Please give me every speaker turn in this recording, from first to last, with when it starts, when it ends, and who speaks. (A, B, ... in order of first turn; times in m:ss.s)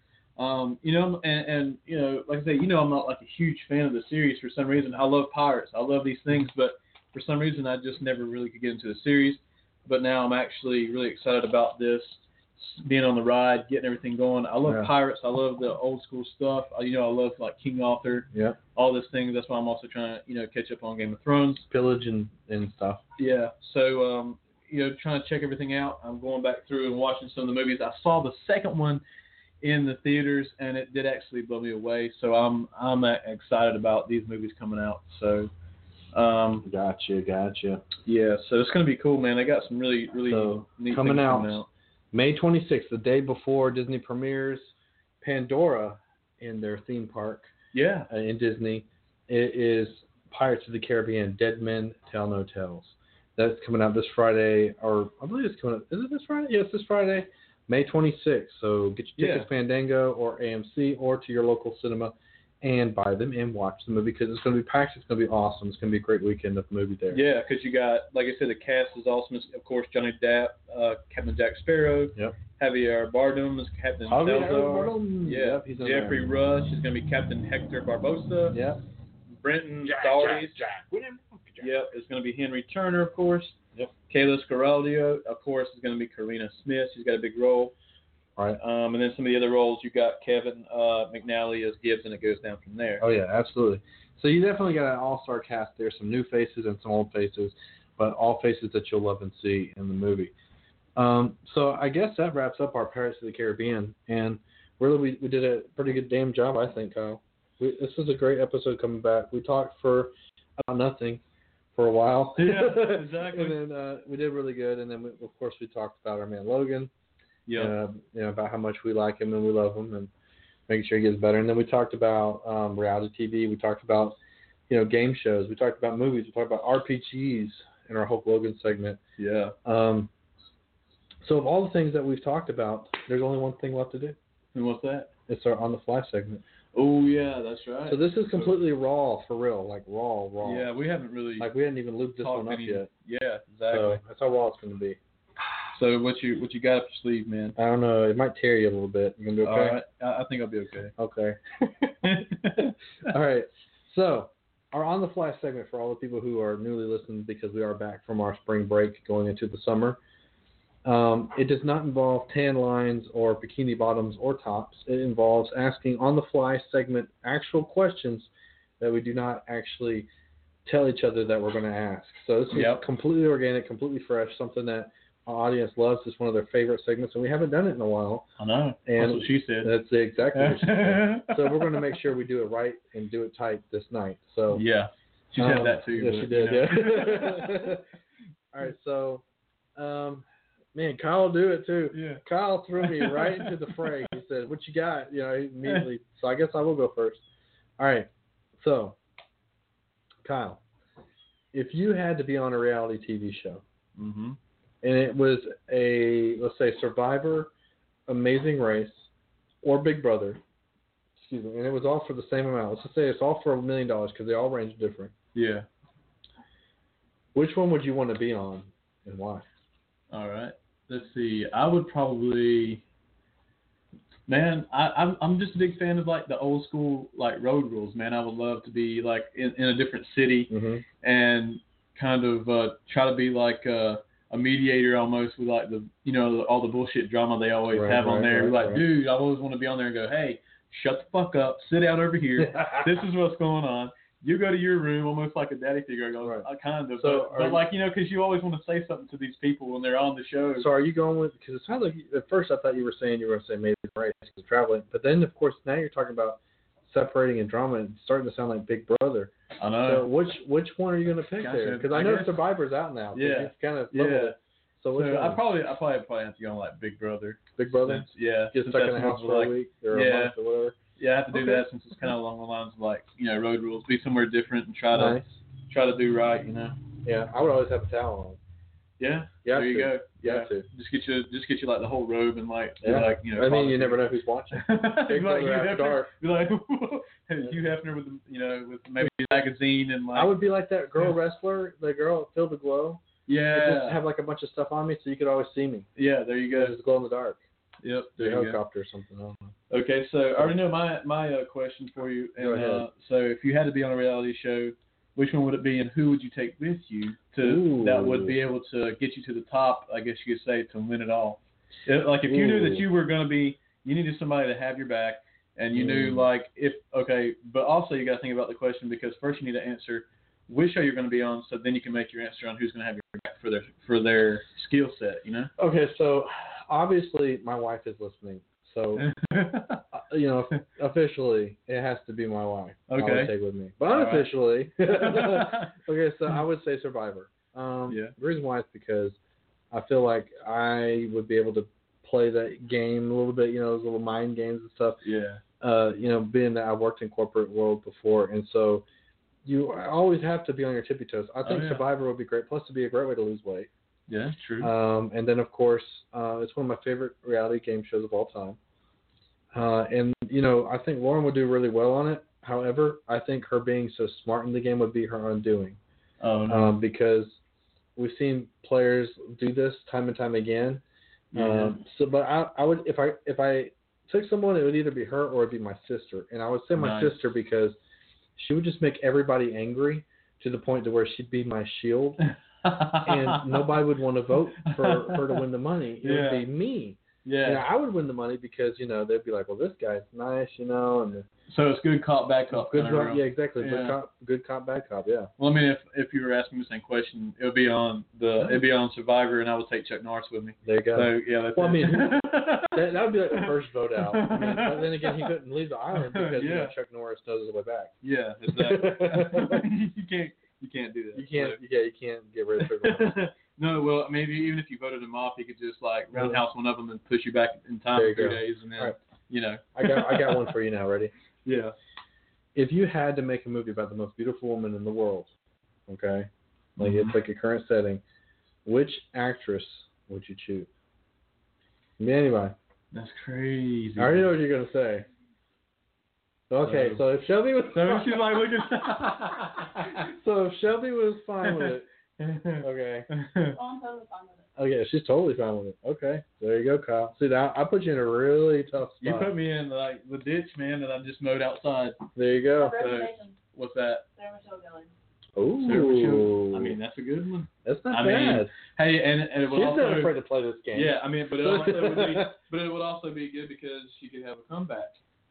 0:00.4-0:21.7 A
0:14.6-0:14.9 B
0:18.3-0:18.6 B
0:21.7-0:23.0 B
0:23.2-0:29.0 A
0:29.6-0:35.5 A
0:36.1-0:36.6 A
0:36.6-0:37.8 B
0:38.0-0:41.7 A
0:40.3-0:47.5 B
0:47.7-0:48.1 A
0:48.1-1:07.2 B
0:59.2-0:59.5 A
1:07.1-1:18.6 A
1:14.1-1:16.3 B
1:18.5-1:18.8 B
1:19.4-1:20.6 A
1:19.8-1:21.7 B
1:21.6-1:23.6 A
1:24.1-1:27.7 A
1:28.6-1:33.0 A
1:33.0-1:40.3 B
1:41.0-1:51.2 B
1:51.7-1:56.9 B
1:52.4-1:53.6 A
1:57.5-1:57.7 A
1:57.5-2:00.1 B
2:00.7-2:04.2 B
2:04.7-2:09.0 B
2:09.2-2:09.5 A
2:09.6-2:10.1 B
2:11.2-2:14.2 B
2:14.5-2:15.1 A
2:15.3-2:16.4 B
2:16.7-2:18.5 A
2:17.8-2:20.7 B
2:20.4-2:21.5 A
2:21.4-2:22.9 B
2:22.2-2:24.0 A
2:23.7-2:25.0 B
2:25.7-2:27.6 A
2:27.6-2:29.8 B
2:29.4-2:30.9 A
2:31.0-2:31.4 B
2:32.0-2:32.7 A
2:33.0-2:40.0 B
2:40.8-2:50.1 B
2:50.6-2:58.3 B
2:52.5-2:52.8 A
2:58.4-2:59.7 A
2:58.8-3:04.6 B
3:00.3-3:01.8 A
3:04.5-3:07.7 A
3:05.4-3:07.8 B
3:08.5-3:09.2 B
3:09.8-3:17.2 B
3:11.9-3:12.2 A
3:12.8-3:13.9 A
3:17.8-3:19.0 B
3:20.2-3:20.6 B
3:21.5-3:23.6 B
3:24.0-3:24.4 A
3:24.8-3:27.5 B
3:28.1-3:29.1 B
3:29.6-3:30.4 B
3:31.2-3:35.1 B
3:35.3-3:35.6 A
3:37.3-3:39.4 B
3:40.1-3:42.8 A
3:44.3-3:50.5 A
3:50.5-3:50.8 B
3:51.0-4:10.7 A
3:57.7-3:58.8 B
4:02.4-4:02.9 B
4:06.2-4:07.6 B
4:10.6-4:25.4 B
4:19.6-4:20.1 A
4:21.4-4:22.4 A
4:23.1-4:24.4 A
4:25.0-4:30.3 A
4:27.6-4:30.8 B
4:31.0-4:36.8 A
4:31.3-4:31.6 B
4:34.9-4:35.4 B
4:37.0-4:38.4 B
4:39.0-4:44.0 A
4:39.4-4:40.7 B
4:42.8-4:46.1 B
4:44.5-4:50.5 A
4:49.0-4:49.4 B
4:50.1-4:55.9 B
4:53.3-4:54.0 A
4:56.0-4:56.8 A
4:56.5-4:57.4 B
4:57.8-4:58.6 A
4:58.2-4:59.5 B
4:59.7-5:25.5 A
5:02.4-5:02.9 B
5:07.4-5:08.4 B
5:12.2-5:12.8 B
5:15.7-5:16.3 B
5:25.6-5:29.1 B
5:29.0-5:29.8 A
5:29.9-5:39.2 B
5:32.9-5:33.3 A
5:33.8-5:34.3 A
5:34.8-5:35.7 A
5:37.9-5:38.1 A
5:39.7-5:45.0 B
5:45.0-5:45.4 A
5:45.6-5:48.8 B
5:49.4-5:53.7 B
5:51.4-5:51.8 A
5:54.1-5:54.7 A
5:54.6-5:58.6 B
5:59.5-6:05.8 B
6:06.2-6:06.7 A
6:06.5-6:07.4 B
6:08.0-6:10.8 B
6:11.3-6:11.8 A
6:11.3-6:17.8 B
6:16.8-6:17.2 A
6:18.4-6:22.2 B
6:22.2-6:23.7 A
6:23.0-6:31.3 B
6:24.6-6:25.4 A
6:26.0-6:26.5 A
6:27.2-6:27.6 A
6:31.5-6:34.0 A
6:32.5-6:35.3 B
6:35.4-6:45.3 A
6:40.6-6:48.0 B
6:46.0-6:46.7 A
6:48.0-6:51.6 A
6:48.5-6:49.6 B
6:51.1-6:53.2 B
6:52.6-7:00.5 A
6:56.1-6:56.4 B
6:57.9-6:59.0 B
6:59.7-7:01.1 B
7:01.4-7:01.7 A
7:02.5-7:05.3 B
7:05.9-7:08.0 B
7:06.8-7:07.1 A
7:08.6-7:10.7 B
7:12.0-7:12.6 B
7:12.9-7:14.3 A
7:14.0-7:15.1 B
7:16.5-7:21.9 B
7:16.6-7:17.0 A
7:17.7-7:20.0 A
7:21.4-7:23.6 A
7:22.6-7:23.1 B
7:23.5-7:24.4 C
7:24.6-7:29.3 B
7:29.0-7:32.0 A
7:32.2-7:32.8 B
7:32.6-7:33.4 C
7:32.8-7:34.0 A
7:34.1-7:34.9 C
7:35.4-7:36.8 B
7:35.6-7:40.1 A
7:37.6-7:38.5 B
7:39.5-7:42.3 B
7:40.7-7:45.0 A